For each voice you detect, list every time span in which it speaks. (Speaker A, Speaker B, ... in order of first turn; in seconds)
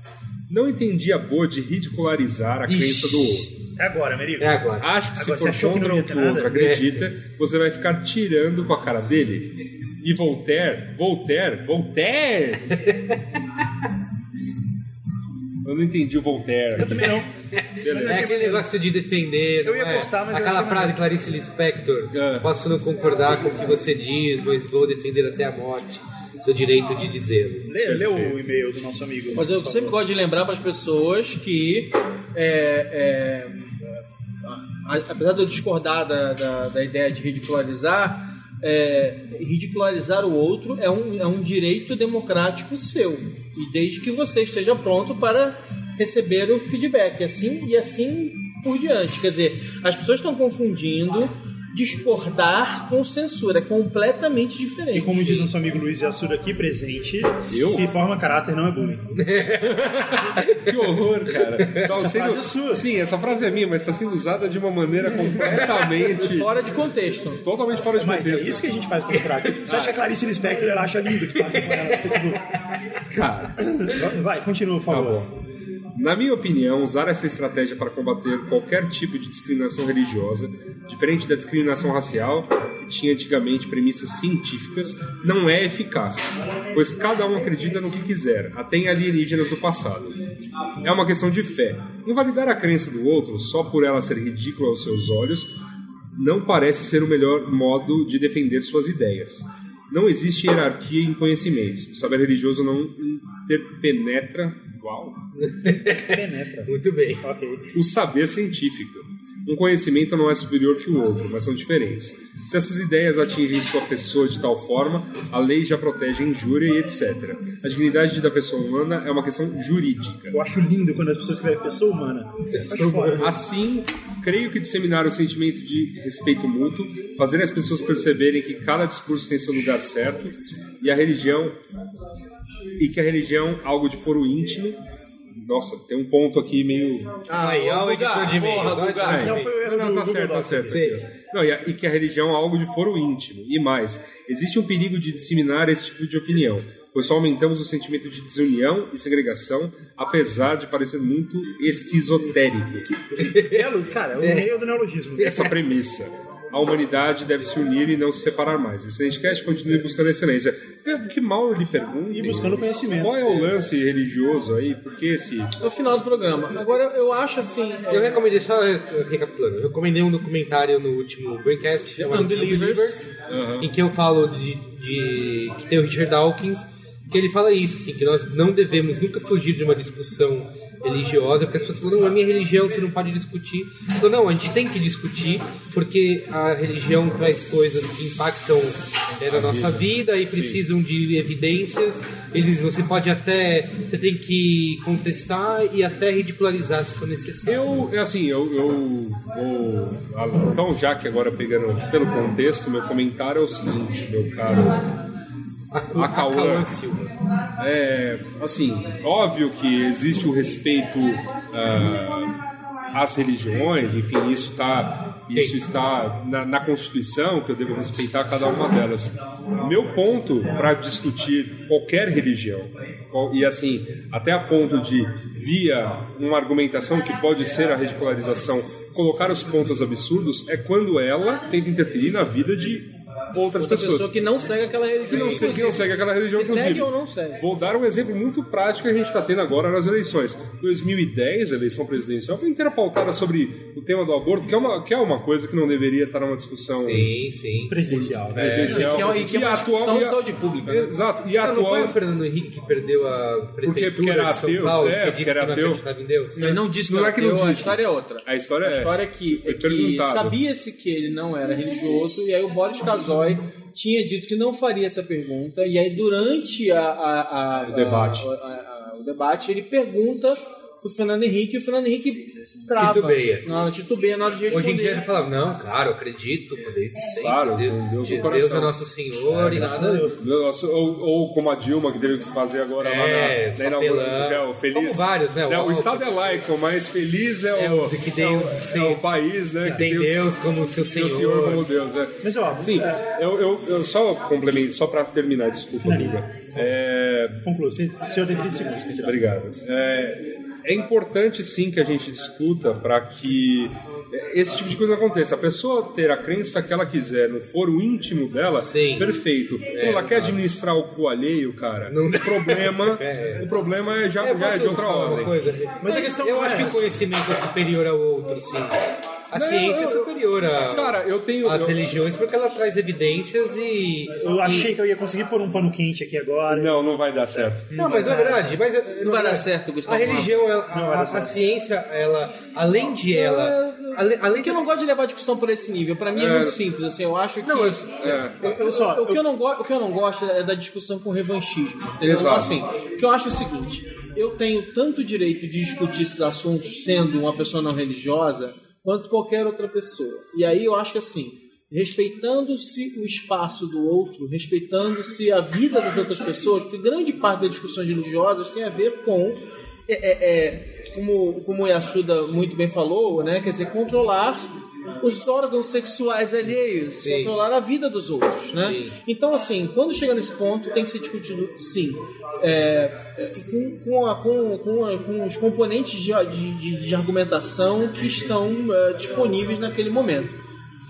Speaker A: 0.5-3.5, 4.8-12.9, 15.6-17.2, 17.8-18.4, 22.1-22.6, 27.8-28.4, 57.5-57.8, 59.6-66.5, 67.4-68.6, 69.7-70.0, 73.1-73.7, 74.9-75.2, 75.9-90.2, 90.8-95.5, 96.2-105.2, 107.7-120.3, 123.1-131.6, 132.8-134.8, 135.3-137.1, 139.1-153.0, 155.2-165.5, 173.3-173.7, 189.2-190.6, 197.4-204.8, 205.9-206.7, 207.6-212.3, 212.9-234.1, 235.1-247.1, 247.9-252.0, 253.6-255.8, 256.4-258.9, 259.4-260.4, 267.7-268.2, 277.1-278.8, 280.2-290.3, 290.9-297.4, 299.0-315.4, 319.3-320.1, 320.7-321.8, 326.5-327.7, 336.1-336.6, 338.0-338.4, 342.0-342.5
Speaker B: 2.7-3.3, 4.4-4.9, 6.5-7.0, 17.6-27.8, 59.1-61.9, 65.5-66.0, 71.3-72.0, 105.3-107.3, 122.5-123.3, 137.4-139.6, 140.7-141.1, 153.2-154.5, 155.2-155.5, 167.9-173.1, 173.6-197.8, 205.7-207.1, 246.8-248.8, 250.7-256.6, 272.8-273.4, 274.5-280.1, 282.8-286.1, 287.6-289.0, 289.6-291.7, 308.6-310.4, 311.9-313.5, 314.2-324.7, 327.7-334.7, 337.4-337.9, 367.0-367.4, 368.5-369.0
Speaker C: 3.7-6.7, 16.8-18.8, 19.6-21.1, 27.6-30.0, 54.9-59.3, 61.7-62.9, 67.9-72.5, 73.6-75.3, 106.0-107.7, 120.3-123.4, 139.0-141.0, 153.2-155.5, 162.1-163.5, 247.7-249.1, 279.3-280.2, 292.2-293.0, 295.8-296.7, 297.4-299.3, 315.8-316.9, 324.2-328.4, 330.6-331.3, 338.4-339.2
Speaker D: 29.3-55.5, 66.2-67.4, 137.2-139.3, 165.6-168.2, 171.9-173.0, 233.6-237.4, 248.6-250.9, 256.3-275.1, 327.8-328.4, 329.0-330.4, 333.1-364.5, 365.0-380.4